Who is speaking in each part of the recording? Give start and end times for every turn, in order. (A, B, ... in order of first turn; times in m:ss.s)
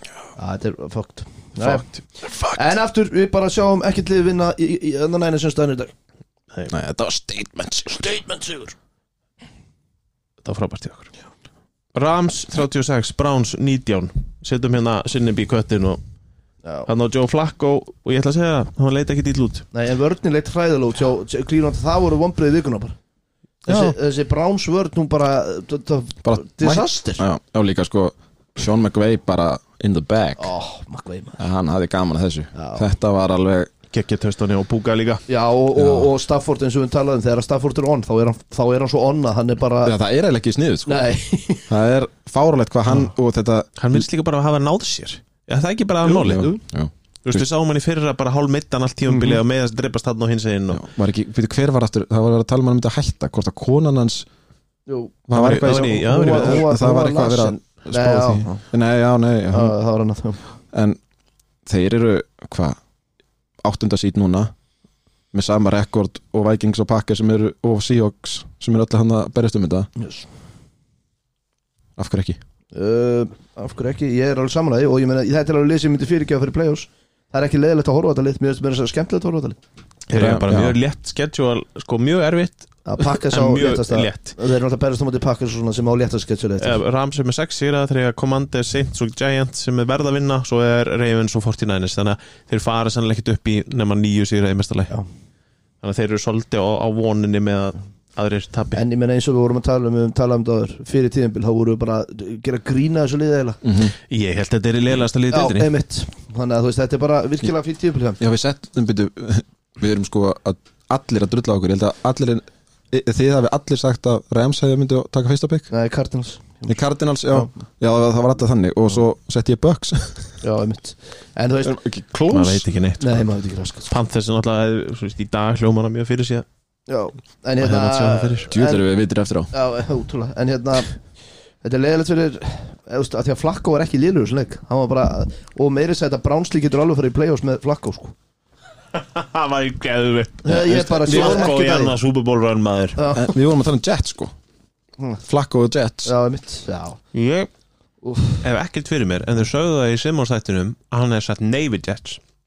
0:00.4-0:01.8 A
0:01.6-0:01.9 B
0:02.5-0:05.9 A
0:06.7-0:08.2 C
0:08.1-0:08.7 A
0:10.4-0:11.1 B
0:11.9-0:16.0 B
0:16.9-0:19.6 B
0:19.7-0:23.0 A
0:23.7-0:27.2 A
0:23.7-0:24.0 C
0:26.2-0:30.5 C
0:30.4-0:31.4 A
0:31.4-0:33.7 C
0:32.5-0:32.9 A
0:33.9-0:35.2 B
0:35.3-0:40.0 A
0:35.8-0:36.1 C
0:39.8-0:41.0 C
0:40.9-0:41.7 A
0:41.7-0:44.1 C
0:43.8-0:46.5 B
0:46.0-0:47.5 C
0:46.2-0:46.6 A
0:47.2-0:50.8 B
0:49.1-0:49.4 A
0:50.7-0:54.3 C
0:54.9-0:58.6 A
0:55.3-0:59.8 C
0:55.3-0:56.7 B
0:59.5-1:00.4 A
1:00.7-1:01.0 C
1:01.7-1:02.8 C
1:03.6-1:04.5 C
1:05.3-1:09.9 C
1:10.0-1:10.3 A
1:12.0-1:12.4 C
1:12.7-1:19.6 A
1:20.1-1:24.4 B
1:20.1-1:20.8 C
1:22.9-1:26.8 A
1:26.6-1:34.9 B
1:35.8-1:38.8 B
1:38.7-1:43.6 A
1:43.6-1:43.9 C
1:44.1-1:45.7 B
1:45.3-1:48.2 A
1:48.2-1:55.7 C
1:55.7-1:56.8 A
1:56.7-2:00.4 C
2:00.4-2:01.8 A
2:01.6-2:02.7 C
2:02.3-2:03.2 B
2:03.0-2:03.9 A
2:03.9-2:06.4 B
2:06.9-2:08.8 A
2:07.6-2:08.5 B
2:08.5-2:09.5 C
2:09.5-2:10.9 A
2:11.6-2:18.1 A
2:18.9-2:23.0 B
2:20.4-2:22.0 A
2:23.0-2:23.3 A
2:23.1-2:24.3 C
2:25.2-2:26.1 C
2:26.0-2:27.0 A
2:27.1-2:27.5 B
2:28.0-2:28.4 A
2:28.4-2:32.2 B